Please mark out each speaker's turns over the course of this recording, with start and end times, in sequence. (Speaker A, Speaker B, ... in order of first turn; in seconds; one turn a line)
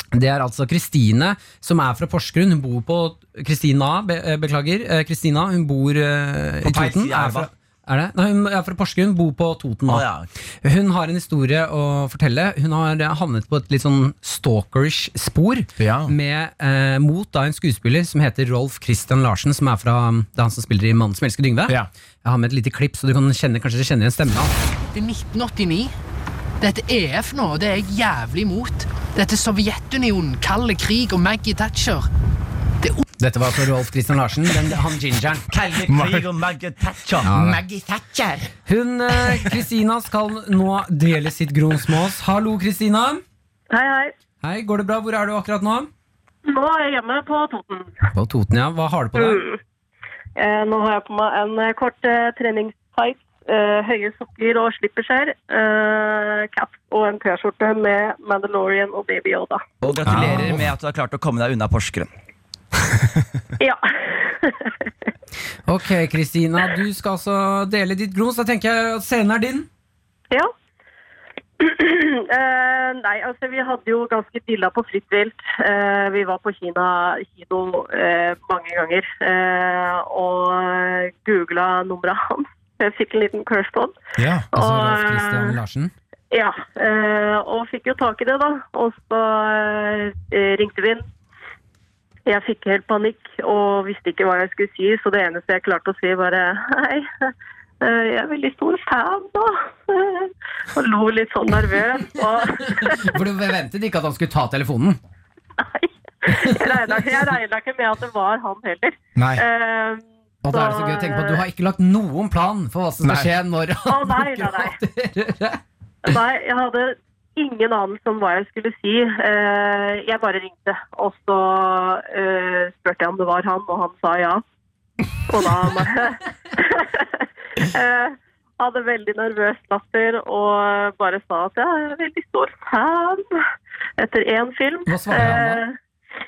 Speaker A: 0.1-10.0
Speaker B: 6.6-7.5
Speaker B: 9.9-10.3
Speaker A: 10.6-24.5
Speaker C: 15.8-16.1
Speaker D: 24.9-25.9
Speaker D: 26.6-32.1
Speaker A: 33.2-35.4
Speaker B: 35.5-37.3
Speaker C: 35.9-36.3
Speaker A: 37.2-37.6
Speaker C: 37.2-38.5
Speaker A: 38.6-43.2
Speaker E: 43.7-44.1
Speaker A: 44.4-45.9
Speaker E: 46.5-47.9
Speaker A: 48.1-49.4
Speaker E: 49.1-49.6
Speaker E: 50.4-59.6
Speaker B: 59.8-62.1
Speaker C: 60.0-60.6
Speaker A: 60.1-60.6
Speaker E: 63.6-64.7
Speaker A: 65.7-69.7
Speaker E: 71.6-84.0
Speaker C: 84.2-84.5
Speaker E: 84.5-85.6
Speaker A: 84.5-85.9
Speaker E: 86.3-91.0
Speaker E: 92.2-103.2
Speaker A: 102.6-105.0
Speaker E: 105.6-111.4
Speaker A: 106.3-107.0
Speaker C: 109.2-109.4
Speaker A: 110.4-115.6
Speaker C: 113.0-113.3
Speaker E: 113.8-114.8
Speaker E: 116.0-124.4
Speaker E: 125.3-133.4
Speaker E: 134.0-135.7
Speaker A: 134.9-135.6